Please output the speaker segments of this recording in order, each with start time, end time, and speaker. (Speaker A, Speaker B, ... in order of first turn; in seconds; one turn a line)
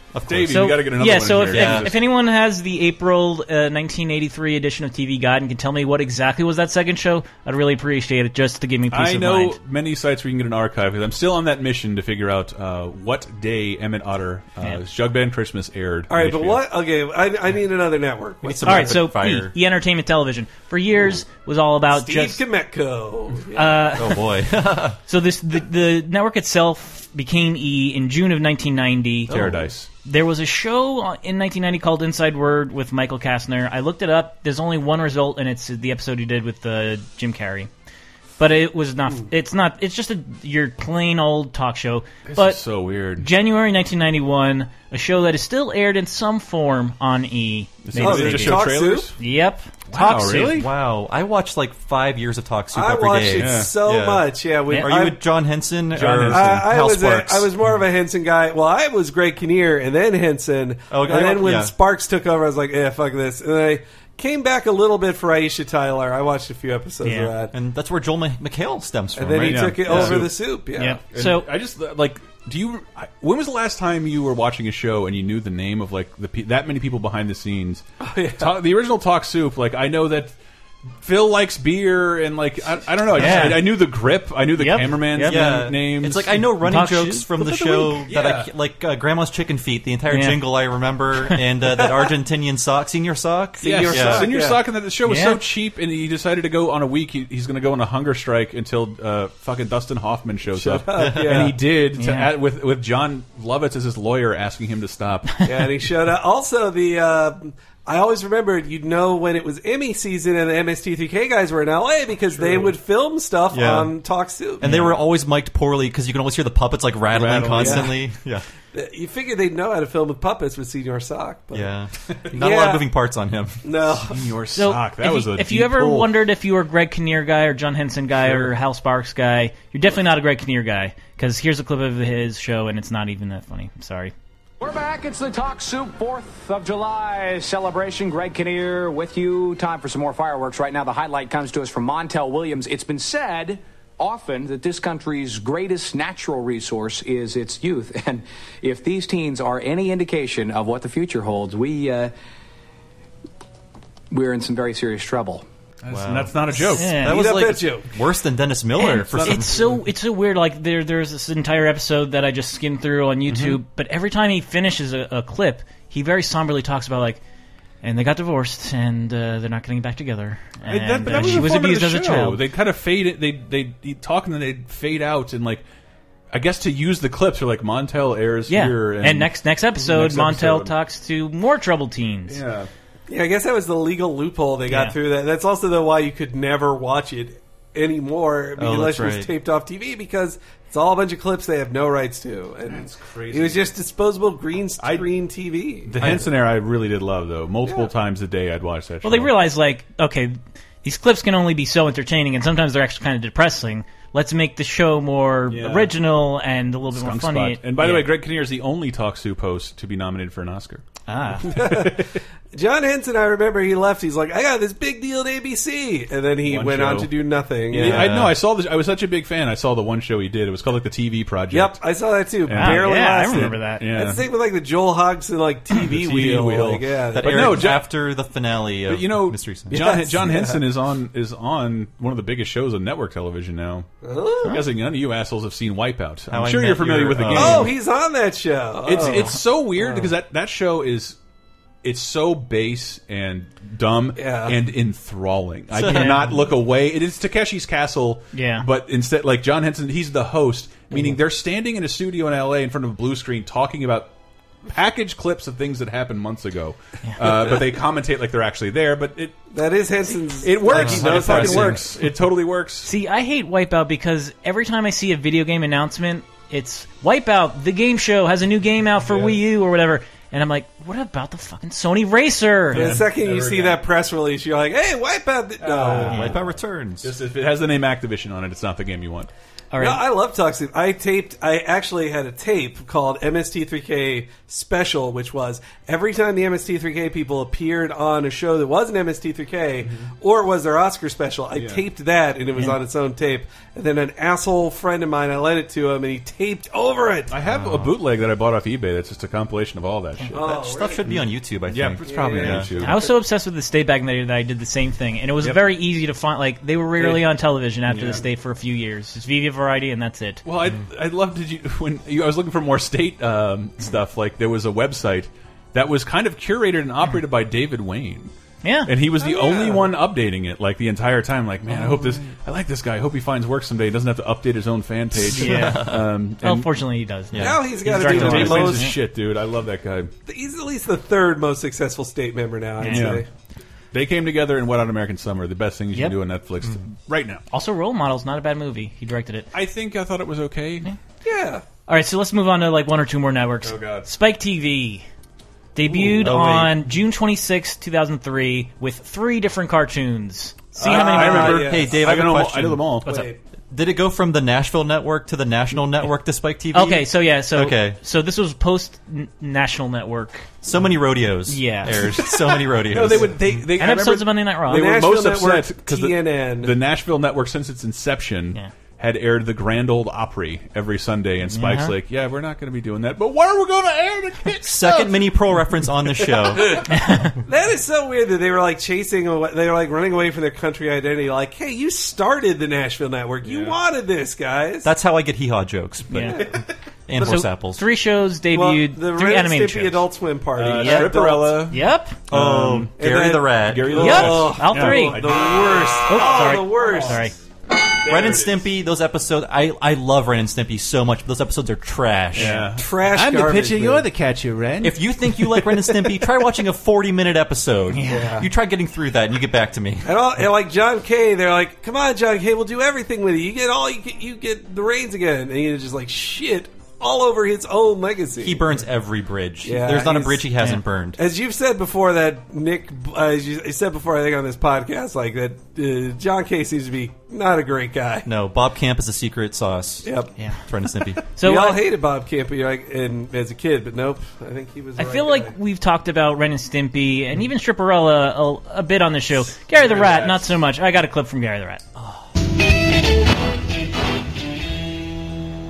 Speaker A: 0.1-0.8
Speaker B: 0.2-2.0
Speaker C: 0.5-9.6
Speaker A: 1.4-1.9
Speaker B: 8.9-16.6
Speaker D: 16.1-18.9
Speaker A: 18.4-19.5
Speaker C: 18.6-22.4
Speaker D: 21.9-23.9
Speaker C: 23.5-24.2
Speaker A: 23.9-25.0
Speaker C: 25.1-37.7
Speaker B: 29.3-29.9
Speaker C: 38.4-42.6
Speaker B: 42.3-43.3
Speaker C: 43.2-50.6
Speaker B: 47.9-49.1
Speaker D: 48.0-49.1
Speaker B: 49.9-50.7
Speaker A: 50.3-57.5
Speaker D: 52.7-55.2
Speaker B: 53.3-53.7
Speaker B: 56.0-56.7
Speaker D: 56.2-67.5
Speaker A: 60.9-61.7
Speaker C: 67.0-67.3
Speaker A: 67.5-70.2
Speaker D: 69.2-71.0
Speaker B: 69.4-70.4
Speaker C: 70.8-71.5
Speaker B: 71.1-77.8
Speaker D: 78.0-78.5
Speaker B: 78.4-80.3
Speaker B: 81.0-86.5
Speaker C: 83.2-83.8
Speaker C: 84.6-85.6
Speaker A: 85.2-94.3
Speaker C: 86.6-87.9
Speaker B: 88.0-88.5
Speaker C: 90.1-90.5
Speaker B: 93.6-105.4
Speaker D: 93.6-94.6
Speaker C: 95.1-95.4
Speaker D: 100.5-101.6
Speaker A: 100.9-101.5
Speaker C: 102.0-102.3
Speaker D: 105.5-114.8
Speaker B: 112.3-112.8
Speaker A: 113.5-113.9
Speaker A: 114.6-118.5
Speaker B: 117.1-118.0
Speaker D: 117.5-117.9
Speaker D: 118.7-121.7
Speaker A: 121.5-123.7
Speaker D: 122.4-122.8
Speaker D: 123.6-124.2
Speaker B: 124.1-126.1
Speaker C: 124.6-134.1
Speaker E: 134.6-152.1
Speaker E: 154.1-155.4
Speaker B: 155.8-157.0
Speaker A: 155.9-159.6
Speaker C: 156.7-157.2
Speaker D: 157.0-157.9
Speaker C: 158.8-167.2
Speaker B: 159.0-159.8
Speaker B: 163.3-163.6
Speaker C: 167.8-172.4
Speaker B: 170.7-175.7
Speaker B: 176.3-180.7
Speaker C: 178.5-182.4
Speaker B: 182.3-182.7
Speaker D: 183.1-196.3
Speaker C: 184.7-185.0
Speaker A: 188.6-189.3
Speaker B: 192.7-193.7
Speaker B: 194.8-195.1
Speaker B: 195.9-199.3
Speaker A: 196.0-196.3
Speaker D: 197.7-197.9
Speaker C: 199.0-208.1
Speaker B: 205.5-206.0
Speaker B: 206.9-210.8
Speaker C: 211.1-211.6
Speaker D: 211.5-218.2
Speaker B: 211.5-212.1
Speaker B: 216.4-217.1
Speaker B: 217.7-221.8
Speaker A: 217.8-218.4
Speaker D: 221.5-227.7
Speaker B: 222.5-224.2
Speaker C: 222.5-223.8
Speaker B: 225.7-227.9
Speaker A: 227.1-229.8
Speaker B: 228.9-233.9
Speaker D: 229.7-230.6
Speaker D: 234.0-234.6
Speaker B: 234.4-237.8
Speaker A: 236.3-237.7
Speaker D: 237.3-240.1
Speaker B: 238.8-241.2
Speaker B: 241.8-254.1
Speaker D: 244.2-244.6
Speaker A: 245.7-246.3
Speaker C: 245.8-246.4
Speaker C: 248.3-248.7
Speaker D: 250.9-251.2
Speaker B: 254.7-259.4
Speaker D: 259.5-261.9
Speaker B: 260.4-262.9
Speaker A: 260.7-261.7
Speaker C: 262.9-273.0
Speaker B: 269.0-269.4
Speaker B: 272.7-273.8
Speaker D: 272.7-276.3
Speaker B: 275.6-276.5
Speaker A: 276.0-277.1
Speaker B: 277.0-279.3
Speaker C: 279.7-280.0
Speaker D: 279.8-297.4
Speaker B: 289.8-290.1
Speaker B: 291.5-291.8
Speaker B: 297.3-303.1
Speaker A: 297.5-297.9
Speaker D: 300.3-301.1
Speaker A: 300.4-302.7
Speaker D: 302.0-303.1
Speaker C: 302.8-310.4
Speaker B: 307.9-308.2
Speaker B: 310.4-318.3
Speaker C: 318.6-318.9
Speaker B: 318.9-326.7
Speaker D: 319.2-319.9
Speaker A: 325.3-326.0
Speaker C: 325.3-329.0
Speaker A: 327.3-327.7
Speaker D: 327.4-328.9
Speaker B: 327.9-330.1
Speaker D: 330.3-333.3
Speaker C: 332.8-333.2
Speaker B: 332.9-333.2
Speaker B: 333.9-337.4
Speaker C: 337.5-339.5
Speaker B: 339.5-340.9
Speaker D: 341.2-341.6
Speaker C: 341.9-345.1
Speaker B: 343.6-344.1
Speaker C: 345.8-351.6
Speaker A: 345.9-346.8
Speaker B: 350.8-353.3
Speaker D: 350.8-352.1
Speaker A: 350.8-353.0
Speaker D: 353.1-353.4
Speaker A: 353.7-358.0
Speaker C: 356.7-360.5
Speaker A: 360.6-363.7
Speaker C: 361.5-362.0
Speaker B: 361.9-375.4
Speaker C: 363.8-365.0
Speaker D: 364.7-366.8
Speaker C: 371.5-371.9
Speaker A: 374.6-376.9
Speaker C: 376.9-377.3
Speaker D: 377.4-384.9
Speaker B: 383.4-383.8
Speaker A: 384.8-386.5
Speaker C: 386.1-386.4
Speaker A: 387.1-387.8
Speaker C: 387.2-390.1
Speaker D: 388.5-391.6
Speaker B: 390.6-393.0
Speaker C: 390.6-392.2
Speaker A: 392.3-394.4
Speaker D: 393.0-397.3
Speaker B: 393.5-397.2
Speaker C: 394.0-395.3
Speaker C: 396.1-397.3
Speaker B: 398.1-398.6
Speaker A: 398.1-402.6
Speaker B: 402.3-406.3
Speaker C: 402.4-402.7
Speaker D: 402.8-404.1
Speaker A: 404.8-410.1
Speaker C: 407.9-408.4
Speaker D: 408.1-408.5
Speaker D: 410.1-418.7
Speaker A: 418.4-421.2
Speaker D: 419.6-420.5
Speaker D: 421.2-428.3
Speaker A: 428.3-430.1
Speaker D: 430.0-430.3
Speaker C: 430.4-430.6
Speaker A: 430.7-431.2
Speaker C: 431.4-431.8
Speaker D: 431.4-435.6
Speaker C: 435.0-441.9
Speaker B: 439.7-440.5